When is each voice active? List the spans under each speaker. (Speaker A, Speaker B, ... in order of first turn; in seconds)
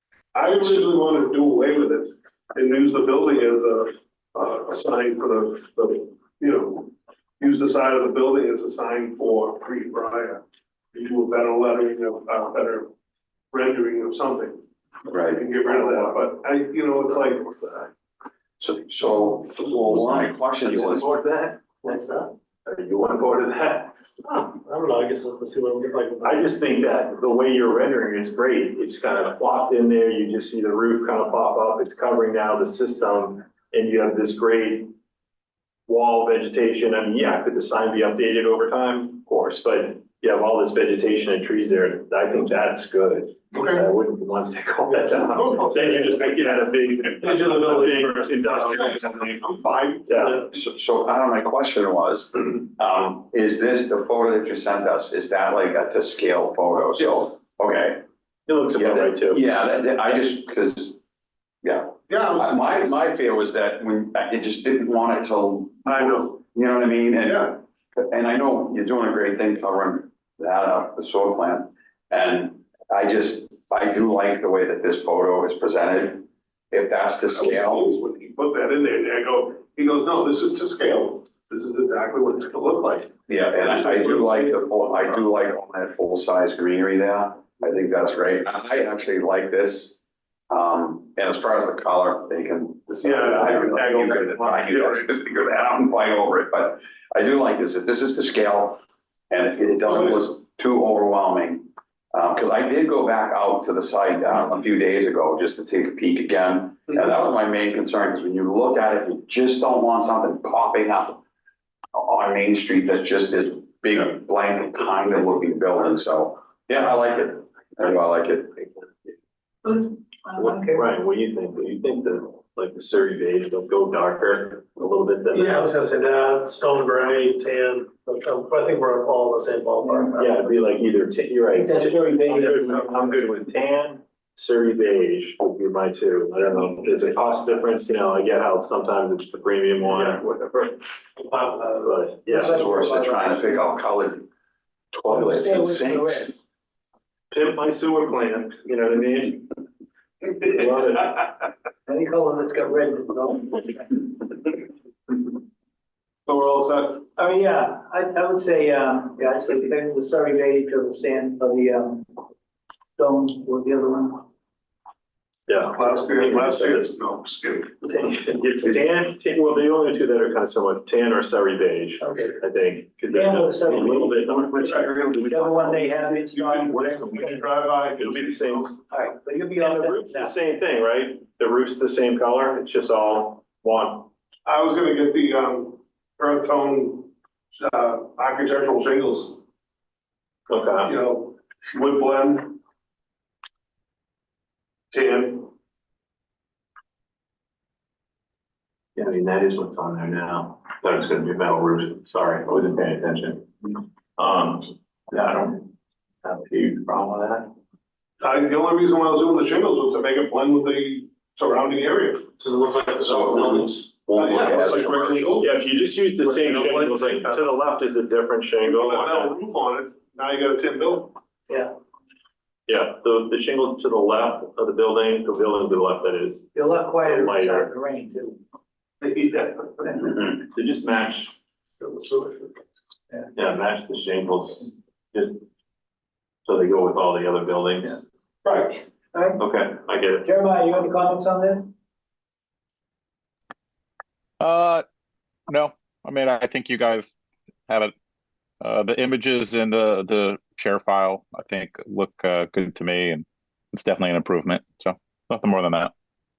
Speaker A: 0.3-12.9, 13.5-14.6, 15.3-17.7, 43.5-43.9, 44.9-46.4, 47.2-50.5, 62.1-62.9, 65.8-66.4, 67.2-67.5, 77.3-85.2, 93.0-95.0, 99.8-100.2, 156.3-157.1, 165.7-167.8, 174.5-178.7, 184.4-189.4, 190.8-192.6, 194.9-195.5, 208.2-212.4, 214.1-215.7, 216.2-217.4, 218.6-221.2, 229.0-229.9, 231.8-232.5, 238.4-238.8
Speaker B: 15.1-15.4, 18.6-21.1, 50.5-58.0, 58.7-61.0, 61.6-77.9, 83.3-90.0, 90.5-111.2, 111.9-118.9, 142.4-144.2, 144.9-146.3, 213.0-215.4
Speaker C: 15.8-16.1, 20.9-21.8, 22.6-23.9, 26.2-34.9, 35.9-49.3, 50.1-50.4, 58.5-59.4, 120.3-125.8, 130.2-140.8, 141.8-142.7, 147.3-149.5, 150.3-151.3, 165.5-166.8, 167.8-175.6, 178.0-178.8, 179.6-184.1, 190.5-190.9, 198.9-205.7, 206.2-207.5, 215.4-219.3, 222.7-227.7, 230.5-231.3, 233.3-235.4, 236.4-238.0, 239.4-240.3
Speaker D: 21.8-22.3, 24.2-26.4, 125.3-130.3, 141.2-141.9
Speaker E: 119.6-120.9, 129.8-130.4, 131.5-132.8, 142.3-143.6, 145.1-146.3, 151.8-154.5, 157.2-162.2, 163.0-164.2, 172.0-172.4, 173.1-177.5, 178.9-180.3, 226.5-228.4, 239.1-239.4, 240.2-241.7
Speaker F: 244.4-244.8, 245.5-247.1, 247.7-247.9, 248.6-255.9